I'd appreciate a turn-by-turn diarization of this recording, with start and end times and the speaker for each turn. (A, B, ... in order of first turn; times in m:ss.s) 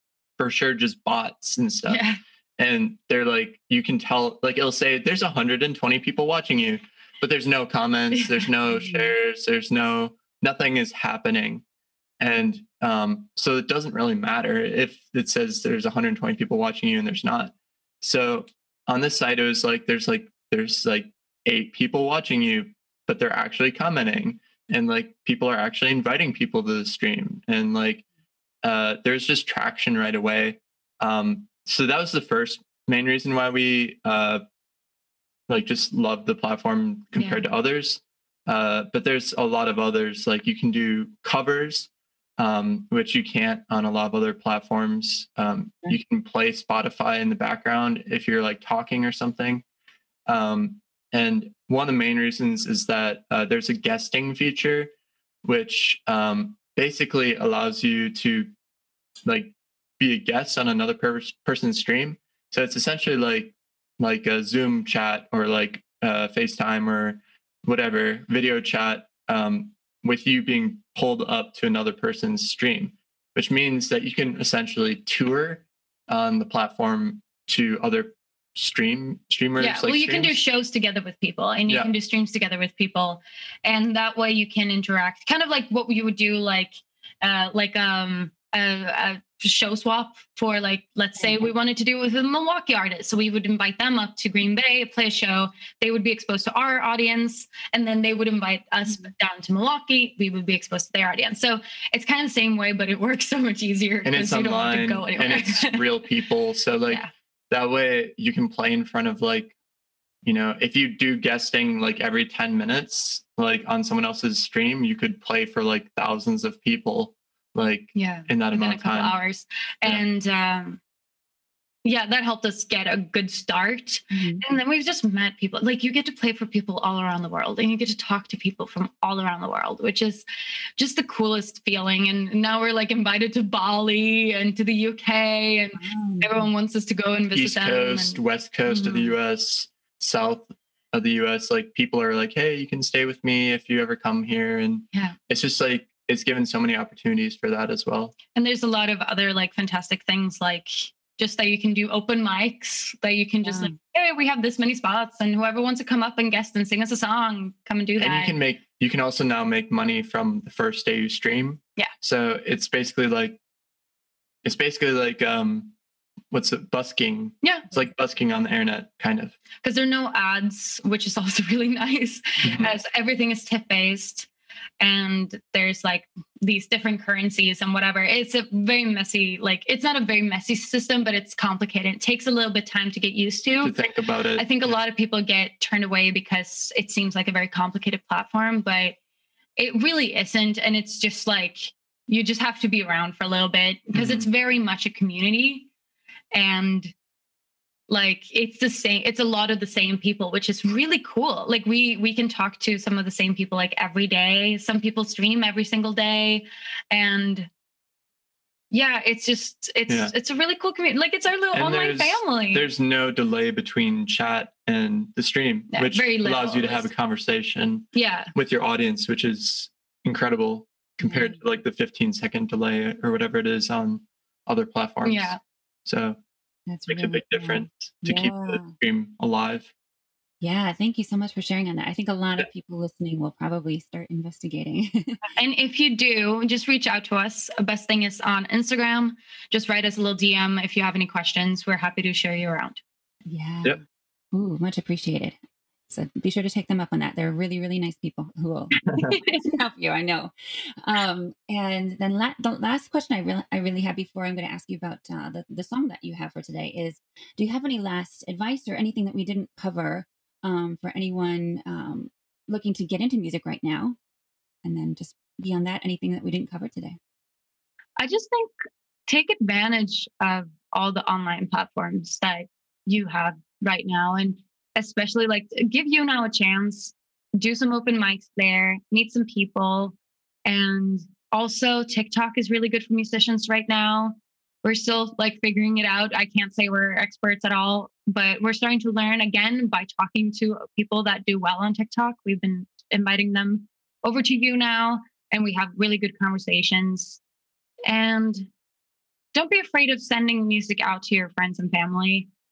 0:00.4-0:02.0 A
0:01.9-0:02.2 B
0:02.6-0:11.6 A
0:08.1-0:08.4 B
0:12.2-0:28.0 A
0:28.6-0:34.4 A
0:35.5-0:49.6 A
0:37.2-0:37.4 B
0:50.3-0:54.9 A
0:55.4-0:58.5 A
0:59.3-1:20.4 A
1:19.6-1:45.9 B
1:31.2-1:31.4 C
1:44.0-1:49.5 A
1:50.2-1:59.2 A
1:58.0-2:00.8 B
2:01.8-2:10.3 B
2:04.1-2:04.4 C
2:10.8-2:19.1 B
2:15.8-2:16.5 C
2:17.3-2:28.2 A
2:28.3-2:38.4 B
2:33.4-2:33.7 C
2:38.0-2:43.4 A
2:44.4-2:45.8 A
2:46.3-2:49.4 A
2:47.4-2:47.7 B
2:49.6-2:54.3 B
2:54.8-3:03.7 B
3:03.6-3:04.8 A
3:04.4-3:09.0 B
3:09.6-3:15.7 B
3:13.9-3:14.3 A
3:16.3-3:16.9 B
3:17.9-3:27.5 B
3:28.7-3:32.7 B
3:29.9-3:30.1 A
3:31.5-3:46.2 A
3:35.7-3:36.9 B
3:38.0-3:38.3 B
3:41.0-3:41.4 C
3:45.0-3:45.4 B
3:46.7-3:48.7 C
3:46.9-3:49.7 A
3:50.4-3:55.4 C
3:55.3-4:02.8 B
4:03.3-4:03.8 C
4:04.3-4:05.4 C
4:05.9-4:24.0 C
4:08.9-4:09.1 A
4:09.0-4:09.5 B
4:24.6-4:27.0 C
4:28.0-4:28.5 B
4:29.1-4:57.2 B
4:57.9-4:58.5 B
4:59.3-5:02.3 B